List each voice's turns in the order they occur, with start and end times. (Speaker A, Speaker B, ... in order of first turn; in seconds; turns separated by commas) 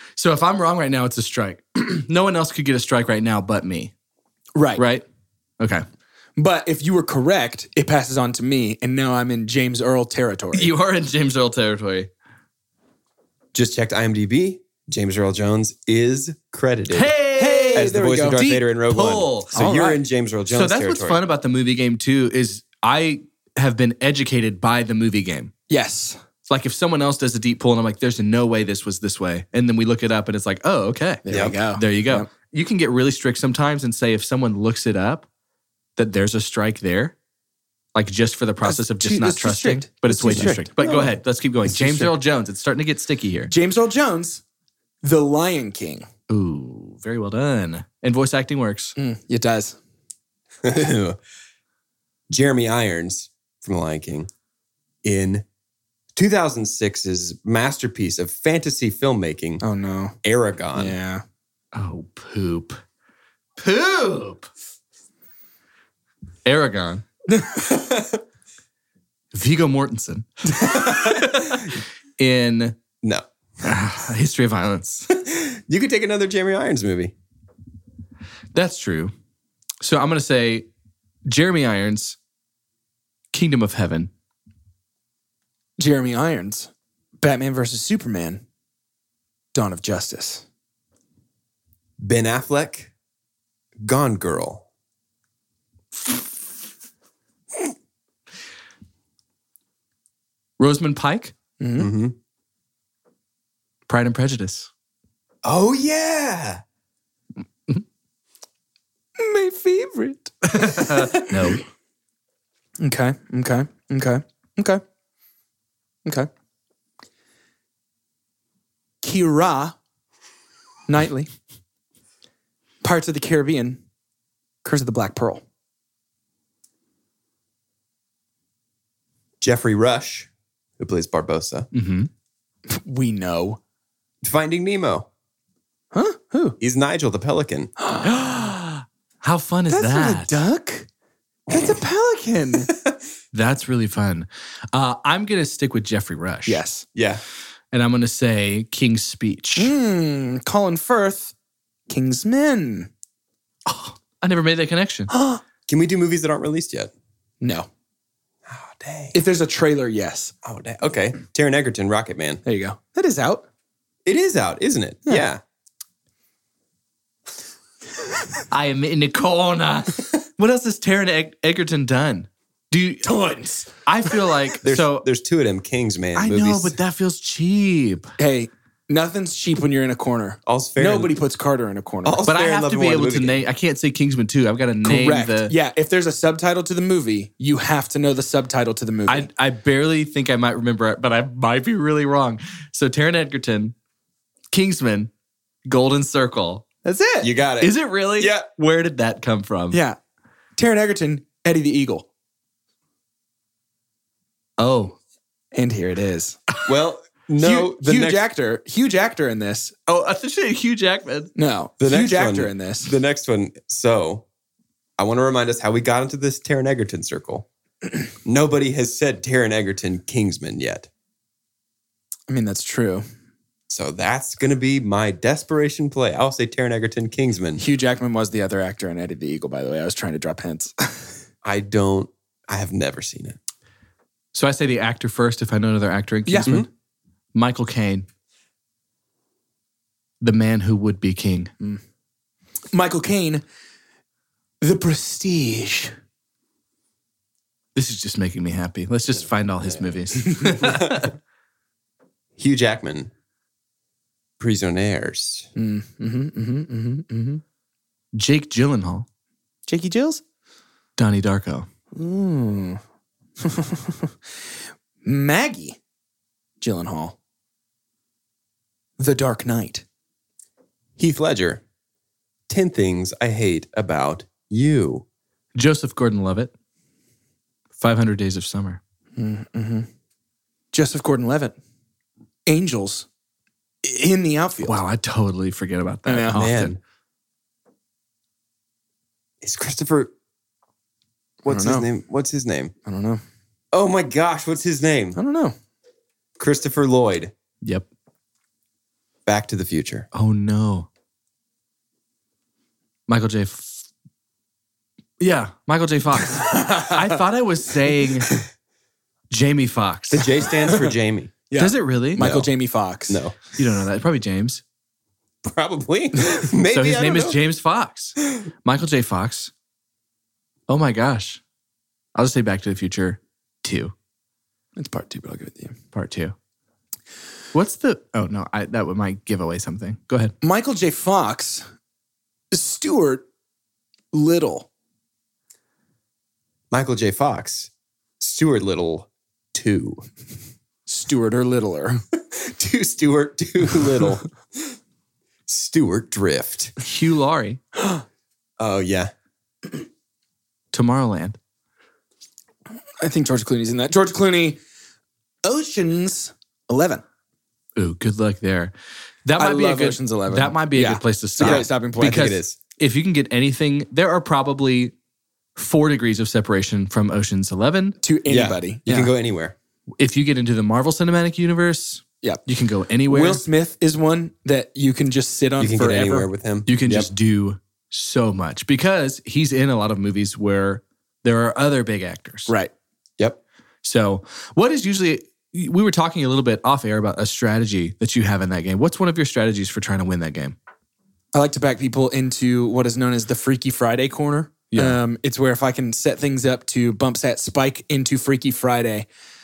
Speaker A: 0.2-3.9, Speaker B: 4.5-4.8, Speaker A: 4.8-5.0, Speaker A: 5.6-5.8, Speaker B: 6.4-10.7, Speaker A: 10.5-12.1, Speaker C: 13.5-17.1, Speaker A: 16.9-20.0, Speaker B: 17.3-18.5, Speaker C: 17.7-21.2, Speaker B: 19.6-19.9, Speaker A: 20.5-25.5, Speaker B: 25.7-26.2, Speaker A: 26.5-35.3, Speaker B: 31.2-32.3, Speaker C: 31.3-31.6, Speaker A: 36.0-37.1, Speaker A: 38.0-43.5, Speaker B: 38.6-40.7, Speaker C: 40.3-41.1, Speaker B: 41.6-42.1, Speaker B: 43.5-44.4, Speaker B: 45.0-46.1, Speaker A: 46.3-49.0, Speaker B: 49.0-49.8, Speaker C: 50.6-51.2, Speaker C: 52.3-54.3, Speaker C: 55.0-55.5, Speaker C: 56.1-59.6, Speaker B: 59.6-60.2, Speaker C: 60.2-61.0, Speaker B: 60.8-61.2, Speaker A: 61.7-62.8, Speaker A: 63.6-64.5, Speaker A: 66.5-67.0, Speaker C: 67.6-68.2, Speaker A: 69.3-71.6, Speaker C: 70.7-71.6, Speaker A: 72.2-72.8, Speaker A: 73.6-75.1, Speaker C: 75.1-77.1, Speaker A: 78.5-79.1, Speaker A: 79.8-80.7, Speaker A: 81.2-82.2, Speaker A: 83.3-84.1, Speaker B: 85.8-86.7, Speaker B: 87.2-88.4, Speaker B: 89.5-90.4, Speaker C: 92.0-92.9, Speaker C: 93.8-94.7, Speaker A: 100.6-101.3, Speaker B: 101.6-101.9, Speaker C: 101.8-102.2, Speaker A: 103.9-104.7, Speaker C: 105.4-106.6, Speaker B: 109.2-111.2, Speaker A: 110.5-111.6, Speaker B: 112.8-114.8, Speaker B: 119.0-119.8, Speaker B: 120.9-121.3, Speaker B: 122.8-123.8, Speaker B: 124.6-125.4, Speaker C: 129.4-131.7, Speaker A: 131.7-132.1, Speaker B: 132.7-133.6, Speaker C: 134.2-135.1, Speaker B: 135.9-136.6, Speaker C: 136.6-137.7, Speaker B: 137.8-138.1, Speaker A: 138.0-140.4, Speaker B: 139.7-140.9, Speaker B: 141.5-142.7, Speaker A: 143.3-146.6, Speaker B: 146.5-146.8, Speaker C: 146.9-147.2, Speaker A: 147.7-149.7, Speaker B: 149.6-151.3, Speaker B: 151.9-152.9, Speaker A: 153.7-155.1, Speaker B: 155.1-155.4, Speaker C: 155.7-156.9, Speaker B: 157.4-157.7, Speaker C: 158.5-159.2, Speaker B: 159.1-160.3, Speaker C: 160.4-162.4, Speaker B: 162.4-163.4, Speaker C: 164.1-165.4, Speaker A: 168.5-173.2, Speaker B: 173.1-173.7, Speaker A: 173.8-175.1, Speaker C: 174.6-176.8, Speaker A: 176.2-178.1, Speaker B: 178.2-182.2, Speaker C: 180.5-181.1, Speaker C: 182.0-183.4, Speaker A: 182.3-185.5, Speaker B: 184.8-189.3, Speaker A: 189.1-193.8, Speaker A: 194.5-195.1, Speaker A: 195.7-196.7, Speaker B: 196.8-197.3, Speaker C: 197.2-198.5, Speaker A: 197.6-199.8, Speaker B: 199.7-200.0, Speaker B: 200.6-202.1, Speaker A: 204.6-205.0, Speaker B: 205.5-206.4, Speaker C: 206.7-208.2, Speaker B: 207.4-209.8, Speaker A: 209.9-211.3, Speaker B: 211.4-212.9, Speaker C: 211.8-214.2, Speaker C: 215.0-217.5, Speaker C: 218.2-220.9, Speaker B: 222.3-223.1, Speaker C: 223.7-227.6, Speaker B: 227.6-231.1, Speaker C: 231.4-233.4, Speaker A: 234.3-236.7, Speaker B: 236.3-236.5, Speaker A: 237.3-238.1, Speaker A: 240.2-241.5, Speaker B: 242.7-243.4, Speaker B: 244.6-245.9, Speaker A: 247.8-251.1, Speaker B: 250.2-250.5, Speaker C: 250.6-251.1, Speaker C: 252.4-253.1, Speaker C: 254.4-255.5, Speaker B: 255.6-257.4, Speaker A: 258.1-259.1, Speaker B: 259.7-260.2, Speaker A: 261.0-261.7, Speaker B: 261.9-262.8, Speaker B: 263.4-264.1, Speaker B: 265.0-265.8, Speaker B: 266.6-267.2, Speaker B: 269.0-269.8, Speaker C: 271.0-271.6, Speaker C: 272.5-275.1, Speaker A: 275.5-276.5, Speaker A: 277.8-278.8, Speaker B: 279.2-279.9, Speaker B: 280.7-281.5, Speaker B: 282.5-283.1, Speaker B: 283.8-284.8, Speaker A: 284.6-286.8, Speaker B: 286.1-286.5, Speaker C: 286.3-286.8, Speaker C: 289.4-290.1, Speaker C: 291.4-292.7, Speaker B: 291.4-291.9, Speaker B: 292.9-293.2, Speaker C: 293.7-295.2, Speaker B: 295.2-295.5, Speaker C: 296.4-297.3, Speaker C: 299.2-300.1, Speaker A: 300.1-300.9, Speaker A: 303.1-303.9, Speaker A: 305.2-308.3, Speaker B: 306.5-307.0, Speaker A: 309.3-310.3, Speaker C: 310.1-311.4, Speaker B: 311.5-313.2, Speaker A: 311.5-312.3, Speaker C: 312.2-312.5, Speaker C: 313.1-313.4, Speaker A: 313.5-314.6, Speaker C: 315.4-317.4, Speaker A: 316.7-319.5, Speaker A: 320.7-321.4, Speaker A: 322.1-323.9, Speaker B: 324.8-325.8, Speaker A: 325.9-326.4, Speaker A: 327.5-330.4, Speaker B: 330.4-331.6, Speaker B: 332.5-333.2, Speaker B: 334.1-334.7, Speaker C: 336.7-340.0, Speaker B: 340.9-342.0, Speaker C: 342.3-344.7, Speaker C: 345.5-346.7, Speaker A: 346.8-347.6, Speaker C: 348.6-349.1, Speaker A: 350.7-351.4, Speaker B: 353.0-354.6, Speaker B: 355.4-357.0, Speaker A: 357.8-358.7, Speaker A: 359.2-364.9, Speaker B: 359.4-362.3, Speaker C: 361.4-362.6, Speaker A: 365.6-368.0, Speaker B: 368.0-369.1, Speaker C: 368.3-369.5, Speaker A: 370.0-373.4, Speaker B: 373.1-376.3, Speaker C: 375.6-377.1, Speaker A: 376.7-382.5, Speaker A: 383.8-390.6, Speaker B: 391.3-399.1, Speaker A: 394.7-395.0